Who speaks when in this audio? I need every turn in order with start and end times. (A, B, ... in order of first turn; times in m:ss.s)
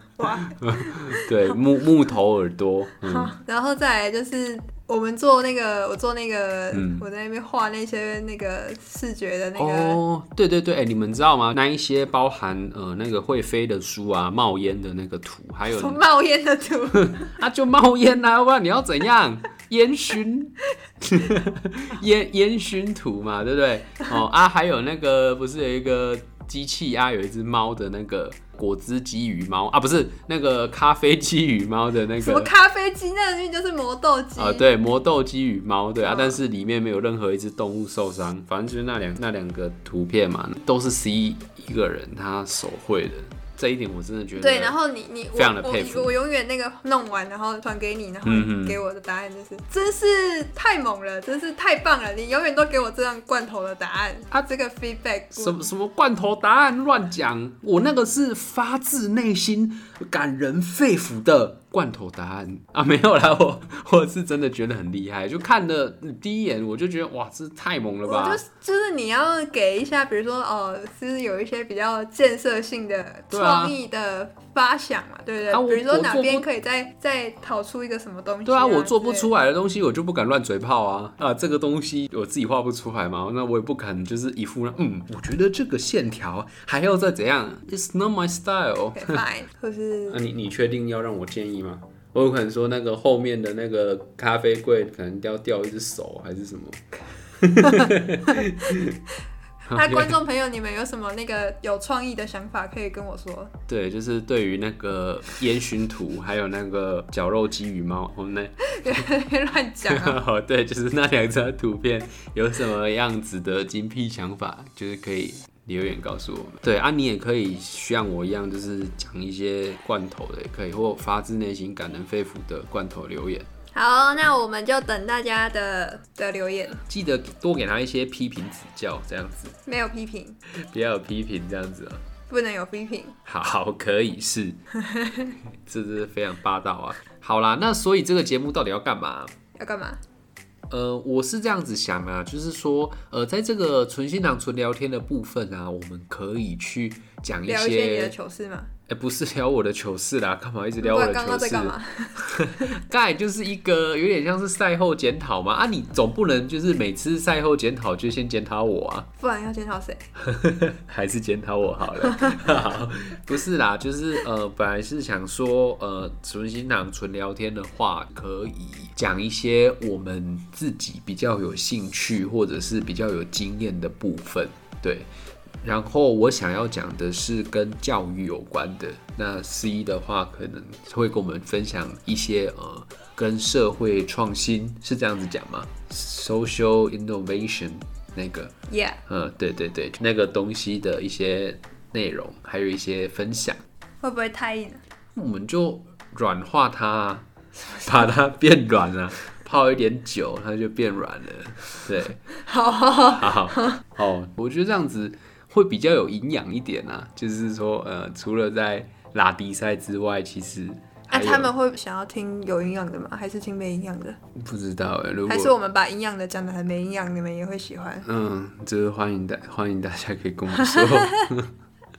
0:00.2-0:01.3 A
0:00.6-0:03.3 B
0:03.1-0:10.0 A
0:06.7-0:07.0 B
0:09.6-0:16.0 B
0:15.7-0:17.4 A
0:16.9-0:32.5 B
0:32.2-0:34.7 A
0:34.4-0:44.8 B
0:36.0-0:36.4 A
0:44.4-0:55.7 A
0:45.3-0:46.2 B
0:48.2-0:48.8 B
0:55.3-1:08.4 B
1:08.0-1:19.3 A
1:13.3-1:13.8 B
1:15.5-1:16.5 B
1:18.4-1:29.2 B
1:29.0-1:30.2 A
1:30.1-1:39.0 B
1:37.6-1:38.5 A
1:39.7-1:43.5 A
1:39.7-1:40.2 B
1:43.7-1:49.0 B
1:48.6-1:50.2 A
1:49.9-2:03.5 B
2:03.7-2:06.8 A
2:06.9-2:09.6 B
2:09.7-2:10.4 A
2:10.5-2:12.0 B
2:12.3-2:13.2 A
2:13.2-2:14.6 B
2:14.8-2:15.4 A
2:15.7-2:19.3 B
2:19.6-2:20.0 A
2:20.7-2:28.2 B
2:27.5-2:28.7 A
2:28.9-2:39.1 B
2:30.8-2:32.8 A
2:39.2-2:40.1 A
2:40.2-2:55.1 B
2:55.6-3:08.5 B
3:08.7-3:09.0 A
3:09.1-3:13.6 B
3:14.0-3:14.8 A
3:15.1-3:17.3 B
3:17.8-3:22.2 B
3:22.4-3:23.8 A
3:23.1-3:31.5 B
3:31.1-3:34.2 A
3:34.4-3:35.5 B
3:35.3-3:38.1 A
3:38.0-3:41.5 B
3:40.6-3:41.3 A